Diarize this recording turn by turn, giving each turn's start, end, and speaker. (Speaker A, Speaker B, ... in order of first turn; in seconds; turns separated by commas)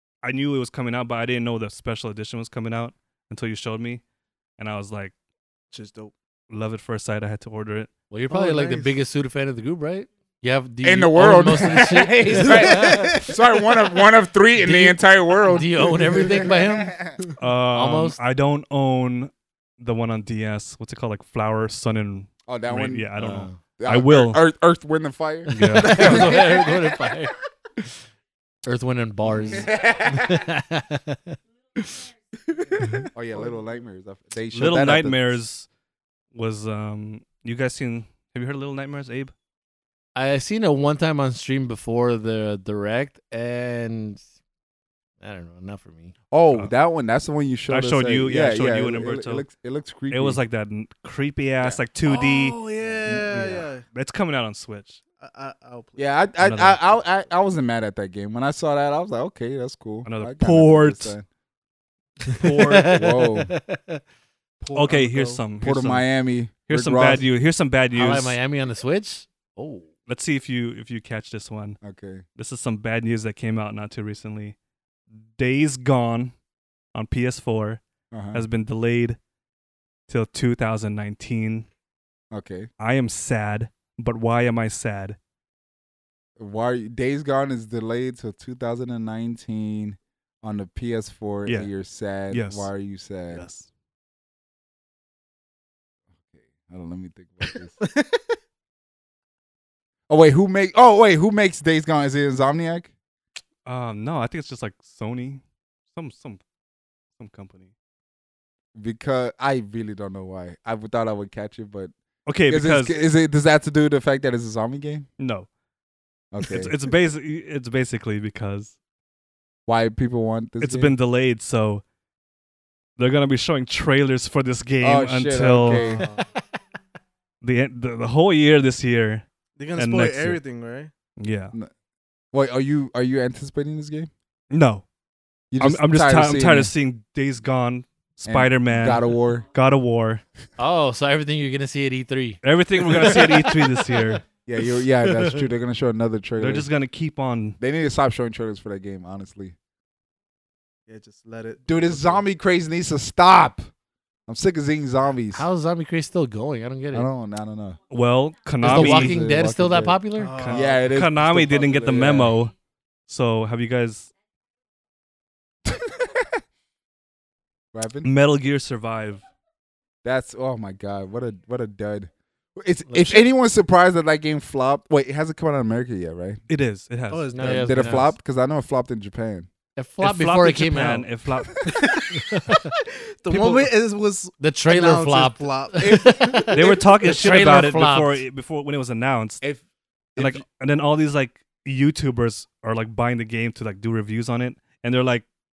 Speaker A: 0.2-4.0, Speaker A: 4.6-5.1, Speaker B: 5.7-6.1, Speaker A: 6.5-7.9, Speaker C: 8.1-13.2, Speaker B: 8.3-8.9, Speaker D: 10.8-17.2, Speaker B: 12.3-13.9, Speaker C: 14.6-17.0, Speaker A: 17.4-24.4, Speaker C: 17.7-18.2, Speaker D: 22.5-23.1, Speaker C: 23.2-23.6, Speaker D: 23.8-26.8, Speaker C: 25.5-27.9, Speaker C: 28.6-32.1, Speaker D: 29.5-30.4, Speaker D: 32.9-35.4, Speaker A: 34.5-35.7, Speaker A: 36.4-39.3, Speaker C: 40.1-44.2, Speaker C: 45.2-46.1, Speaker D: 46.3-50.4, Speaker A: 47.7-49.5, Speaker A: 50.1-55.0, Speaker B: 52.0-53.8, Speaker D: 53.0-53.7, Speaker B: 55.2-56.1, Speaker D: 56.0-61.3, Speaker A: 56.4-56.8, Speaker A: 60.0-61.1, Speaker A: 62.4-62.9, Speaker C: 62.4-64.0, Speaker D: 62.9-63.5, Speaker B: 64.6-65.4, Speaker A: 64.7-66.1, Speaker D: 65.6-67.2, Speaker A: 66.7-68.4, Speaker C: 67.9-69.9, Speaker A: 70.1-71.8, Speaker D: 71.8-72.2, Speaker A: 72.4-74.6, Speaker A: 75.3-76.3, Speaker A: 76.9-77.8, Speaker D: 78.1-78.5, Speaker A: 78.3-79.2, Speaker A: 80.1-81.7, Speaker D: 82.3-82.7, Speaker A: 82.8-85.2, Speaker D: 86.4-93.5, Speaker A: 92.3-92.7, Speaker A: 93.3-93.7, Speaker D: 96.2-97.8, Speaker B: 97.8-98.2, Speaker D: 100.1-102.9, Speaker A: 103.7-105.4, Speaker A: 105.9-106.4, Speaker A: 107.2-107.7, Speaker D: 108.8-111.9, Speaker A: 112.3-113.0, Speaker D: 112.5-115.1, Speaker A: 115.2-115.5, Speaker D: 116.3-116.7, Speaker A: 116.4-118.7, Speaker D: 119.7-120.9, Speaker A: 120.6-121.8, Speaker A: 123.0-125.9, Speaker D: 124.8-126.0, Speaker B: 125.7-126.2, Speaker A: 127.4-129.2, Speaker B: 129.6-130.9, Speaker A: 129.8-130.4, Speaker A: 131.2-131.5, Speaker D: 132.3-134.1, Speaker A: 134.5-134.8, Speaker D: 135.5-136.7, Speaker A: 135.6-140.2, Speaker D: 138.3-139.4, Speaker C: 140.6-142.4, Speaker A: 142.4-144.2, Speaker C: 142.9-143.4, Speaker D: 144.5-146.7, Speaker A: 146.4-147.6, Speaker D: 147.6-149.6, Speaker B: 150.9-152.2, Speaker D: 151.7-153.7, Speaker D: 154.3-155.5, Speaker C: 155.3-157.1, Speaker D: 156.9-157.8, Speaker A: 157.9-159.2, Speaker D: 158.6-160.0, Speaker C: 158.6-160.3, Speaker B: 160.2-160.9, Speaker A: 160.4-162.5, Speaker D: 160.5-162.4, Speaker A: 163.1-164.1, Speaker D: 165.7-166.4, Speaker D: 167.7-168.1, Speaker A: 168.0-169.2, Speaker D: 170.0-176.4, Speaker C: 172.9-173.2, Speaker A: 176.5-177.3, Speaker B: 177.1-177.9, Speaker C: 177.3-178.1, Speaker D: 177.4-179.5, Speaker C: 179.8-181.1, Speaker A: 180.0-181.7, Speaker B: 181.7-182.6, Speaker C: 182.1-182.7, Speaker B: 183.2-186.8, Speaker A: 183.3-183.7, Speaker C: 184.4-188.2, Speaker A: 186.5-189.4, Speaker D: 190.2-190.4, Speaker A: 190.2-195.2